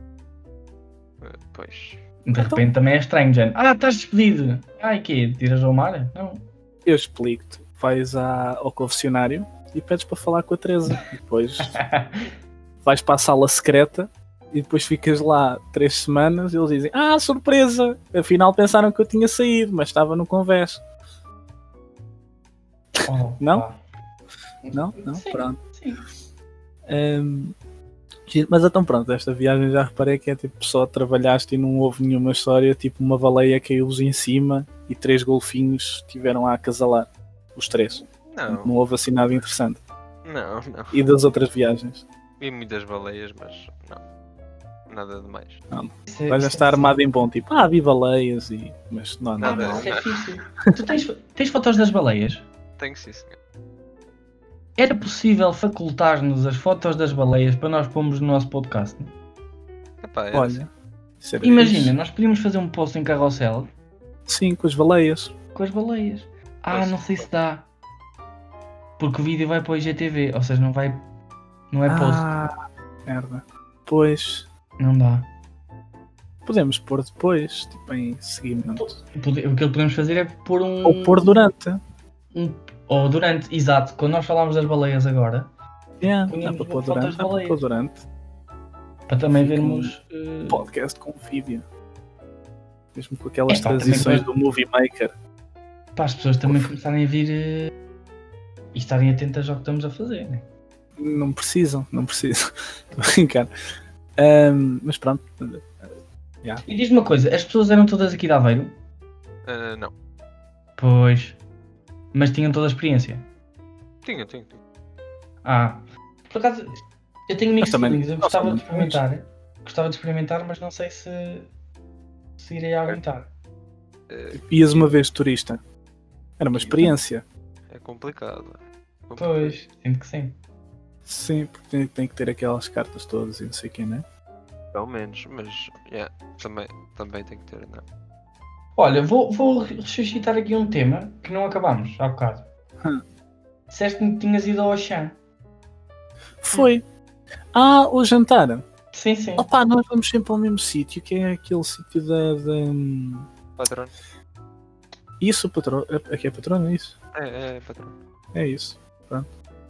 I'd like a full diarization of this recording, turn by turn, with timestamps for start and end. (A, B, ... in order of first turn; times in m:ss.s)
0:01.2-0:02.0 A
0:02.2-0:06.4 B
0:02.3-0:02.7 C
0:06.9-0:11.8 C
0:11.6-0:12.3 B
0:12.8-0:20.8 C
0:23.0-0:23.8 B
0:23.4-0:23.6 C
0:24.6-0:26.0 B
0:24.7-0:25.6 C
0:26.9-0:27.6 C
0:28.3-0:39.8 C
0:38.3-0:38.7 A
0:40.2-0:41.0 A
0:40.9-0:42.0 C
0:42.4-0:44.0 A
0:44.9-0:45.6 A
0:45.7-0:49.9 C
0:46.1-0:47.0 B
0:49.4-0:50.2 A
0:49.4-0:52.5 B
0:52.8-0:53.4 A
0:54.8-0:59.1 B
1:00.0-1:00.6 A
1:00.3-1:00.7 C
1:01.2-1:02.0 C
1:01.4-1:03.7 B
1:04.3-1:05.3 C
1:05.6-1:07.7 B
1:06.7-1:07.3 A
1:09.0-1:11.0 B
1:11.7-1:12.3 B
1:11.9-1:12.5 C
1:13.1-1:14.5 C
1:14.8-1:15.3 B
1:16.4-1:19.0 C
1:18.8-1:21.4 B
1:20.8-1:21.8 C
1:22.3-1:25.5 B
1:26.0-1:28.0 C
1:26.3-1:27.6 B
1:29.1-1:30.6 B
1:29.4-1:30.0 C
1:30.5-1:31.6 C
1:33.0-1:35.1 C
1:33.5-1:34.3 B
1:36.0-1:37.7 B
1:36.5-1:36.7 C
1:38.7-1:40.4 B
1:41.0-1:42.4 C
1:42.9-1:43.5 C
1:44.2-1:45.8 C
1:46.6-1:48.7 B
1:49.5-1:49.9 A
1:50.8-1:51.4 B
1:52.1-1:53.3 B
1:54.0-1:54.6 A
1:55.4-2:01.5 B
1:57.6-1:59.0 C
2:02.4-2:03.3 B
2:04.1-2:04.4 A
2:04.4-2:05.6 C
2:06.4-2:07.2 C
2:06.5-2:06.9 A
2:07.7-2:09.6 A
2:09.2-2:10.4 B
2:11.1-2:14.0 C
2:14.7-2:17.8 A
2:18.8-2:22.5 B
2:23.7-2:25.2 B
2:26.4-2:26.8 C
2:27.5-2:28.6 C
2:28.9-2:29.5 B
2:29.4-2:33.3 C
2:33.6-2:33.9 A
2:35.2-2:37.0 C
2:37.2-2:38.0 A
2:38.3-2:39.3 C